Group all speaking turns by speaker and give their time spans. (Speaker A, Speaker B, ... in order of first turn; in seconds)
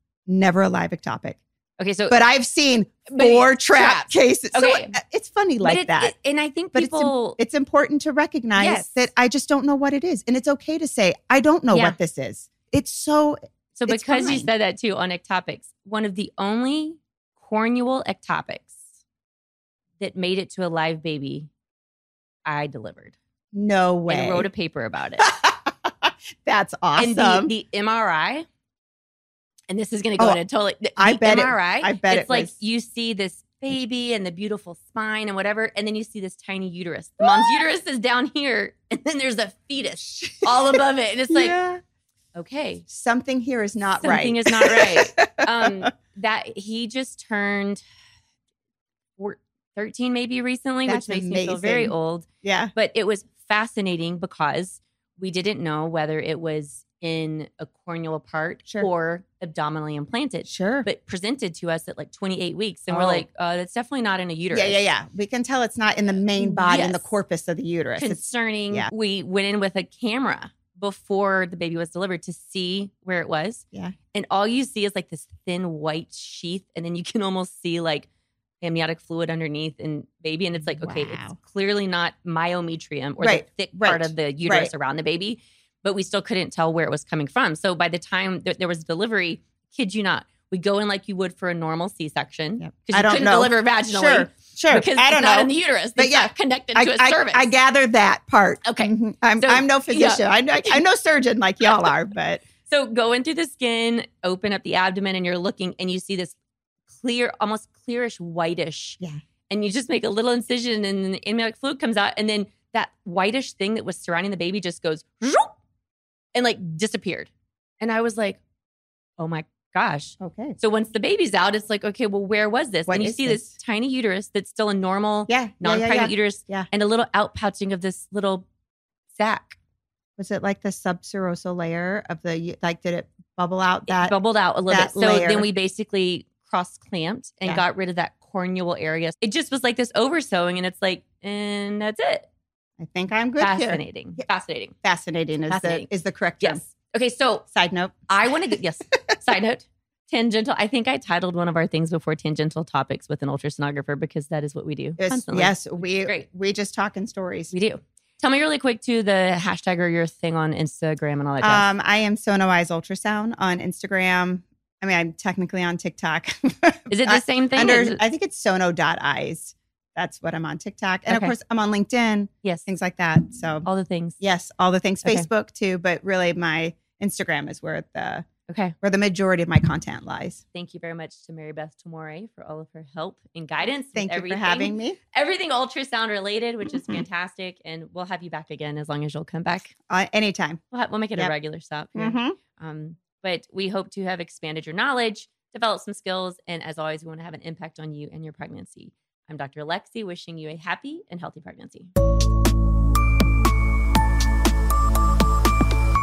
Speaker A: 0.3-1.4, 2.1-6.1, 6.7-14.5, 23.5-24.5, 25.2-27.5, 30.9-32.5, 40.0-41.8, 42.9-45.9, 50.8-52.7, 60.5-60.9, 62.9-63.2, 64.5-68.9, 80.7-81.4, 83.2-84.7, 92.6-102.4, 120.2-120.6, 122.9-123.5, 125.3-126.7, 130.2-134.2, 134.7-135.4, 142.8-143.8, 144.8-146.6, 147.5-148.6, 155.0-157.5, 161.4-173.7, 174.2-178.3, 178.8-180.4, 183.9-185.0, 186.7-187.0, 189.9-190.6, 191.9-192.3
Speaker B: 1.8-2.2, 3.1-4.9, 5.6-7.4, 8.6-9.1, 11.7-12.0, 13.8-18.8, 20.0-21.5, 22.4-23.1, 24.1-25.2, 27.0-28.4, 29.7-41.5, 42.3-42.8, 44.0-47.8, 49.2-64.8, 66.4-67.1, 68.0-78.1, 78.6-97.5, 98.6-100.8, 101.6-101.9, 102.7-106.3, 106.9-115.5, 116.3-117.3, 117.8-118.4, 119.2-128.4, 129.1-129.6, 133.9-142.3, 143.4-144.7, 145.5-145.9, 146.4-147.4, 148.1-156.2, 157.5-161.6, 166.9-168.0, 171.1-171.3, 173.6-174.2, 175.0-175.3, 178.5-178.7, 180.5-189.7, 190.7-201.9